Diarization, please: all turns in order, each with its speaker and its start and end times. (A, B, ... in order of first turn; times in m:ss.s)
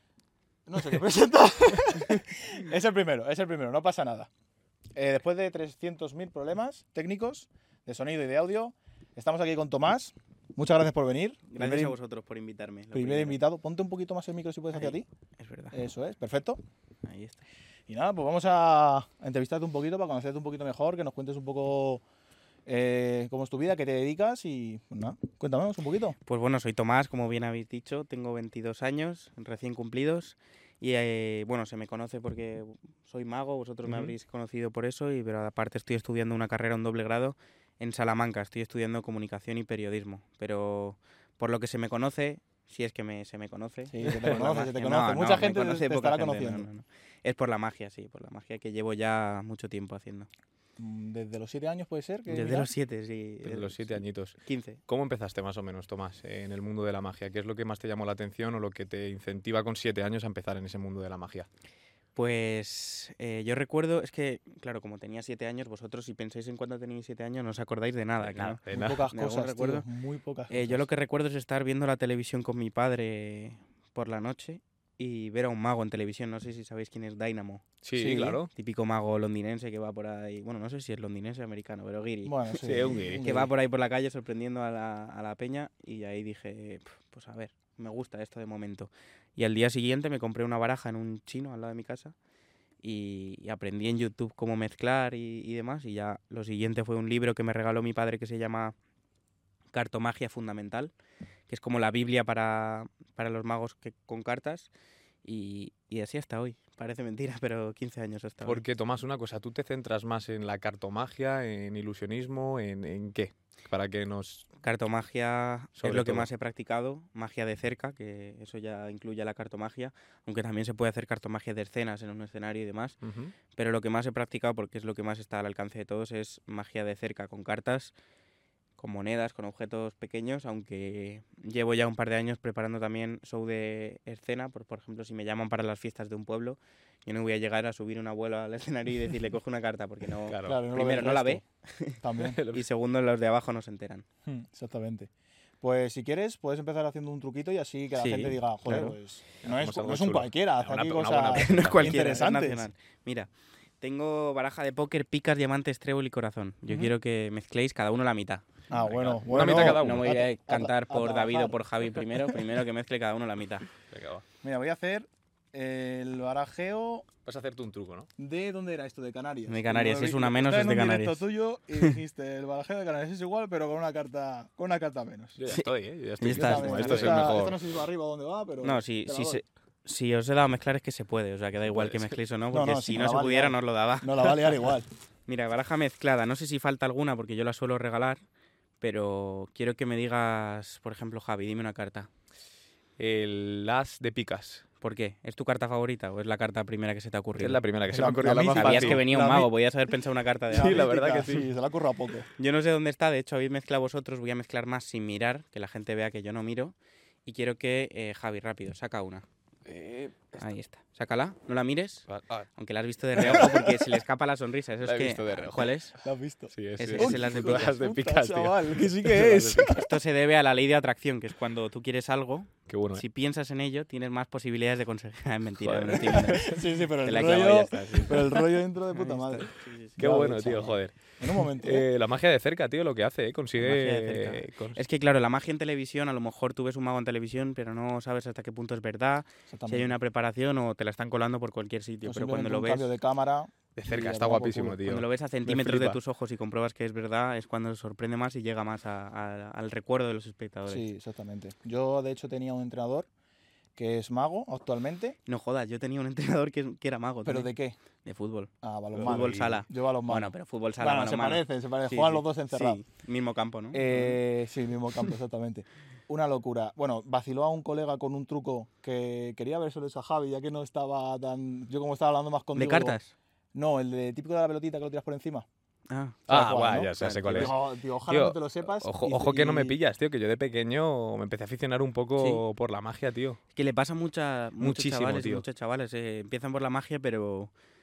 0:00.6-0:04.3 A
0:04.9-0:12.0 A
0:11.5-0:13.4 B
0:12.9-0:15.0 A
0:14.7-0:15.8 B
0:15.7-0:16.6 A
0:17.0-0:17.4 B
0:17.9-0:22.0 A
0:22.6-0:26.2 A
0:26.2-0:50.3 B
0:33.8-0:34.1 C
0:43.9-0:46.7 A
0:50.8-0:52.7 A
0:52.3-0:54.8 B
0:53.4-1:01.5 C
1:02.1-1:09.8 B
1:08.2-1:09.0 C
1:08.7-1:10.8 A
1:10.5-1:17.6 B
1:17.8-1:18.5 C
1:17.9-1:18.4 A
1:18.5-1:32.1 B
1:22.2-1:23.5 A
1:22.6-1:23.2 C
1:32.8-1:38.7 B
1:39.7-1:40.9 B
1:41.5-1:44.7 B
1:45.2-1:48.6 B
1:48.4-1:54.5 C
1:54.6-2:03.0 B
1:55.8-1:56.3 C
2:03.0-2:03.3 C
2:03.5-2:07.9 B
2:08.8-2:24.0 B
2:20.3-2:20.6 C
2:20.4-2:21.4 A
2:22.0-2:22.4 A
2:22.2-2:22.6 C
2:24.2-2:25.1 A
2:25.6-2:32.7 A
2:27.9-2:28.9 B
2:29.4-2:32.1 C
2:31.3-2:33.3 B
2:33.8-2:38.4 B
2:38.7-2:42.4 A
2:38.7-2:40.2 C
2:39.4-2:43.6 B
2:43.9-2:44.2 C
2:44.4-2:47.1 A
2:47.2-2:48.1 C
2:48.2-2:55.4 A
2:49.5-2:51.2 B
2:55.4-2:57.6 C
2:55.5-2:57.3 B
2:56.3-2:59.4 A
2:58.6-3:04.5 B
3:01.6-3:02.1 C
3:02.5-3:04.9 A
3:05.3-3:08.2 B
3:08.8-3:12.1 B
3:13.0-3:14.6 C
3:14.8-3:17.6 B
3:17.4-3:19.0 C
3:17.9-3:19.5 A
3:18.5-3:20.8 B
3:20.5-3:21.5 C
3:20.5-3:22.3 A
3:22.4-3:29.2 B
3:29.6-3:30.5 C
3:30.4-3:35.9 B
3:32.1-3:32.5 C
3:33.2-3:34.0 A
3:34.8-3:35.8 C
3:36.0-3:39.9 A
3:36.5-3:39.7 C
3:36.8-3:37.7 B
3:39.6-3:50.0 B
3:42.7-3:43.0 C
3:45.6-3:46.6 C
3:46.3-3:51.8 A
3:50.0-3:54.8 C
3:53.6-4:02.9 B
3:59.5-3:59.9 A
4:02.0-4:04.8 A
4:03.8-4:06.0 C
4:04.8-4:10.9 B
4:10.7-4:13.1 A
4:13.8-4:15.2 A
4:15.3-4:17.5 B
4:17.2-4:17.8 A
4:18.0-4:24.2 B
4:18.6-4:22.8 A
4:19.0-4:19.5 C
4:23.7-4:33.0 A
4:32.5-4:33.1 B
4:33.5-4:35.4 A
4:35.9-4:36.3 B
4:36.3-4:39.8 A
4:36.3-4:43.4 C
4:36.8-4:37.5 B
4:42.2-4:42.4 B
4:43.5-4:47.5 B
4:44.6-4:45.4 C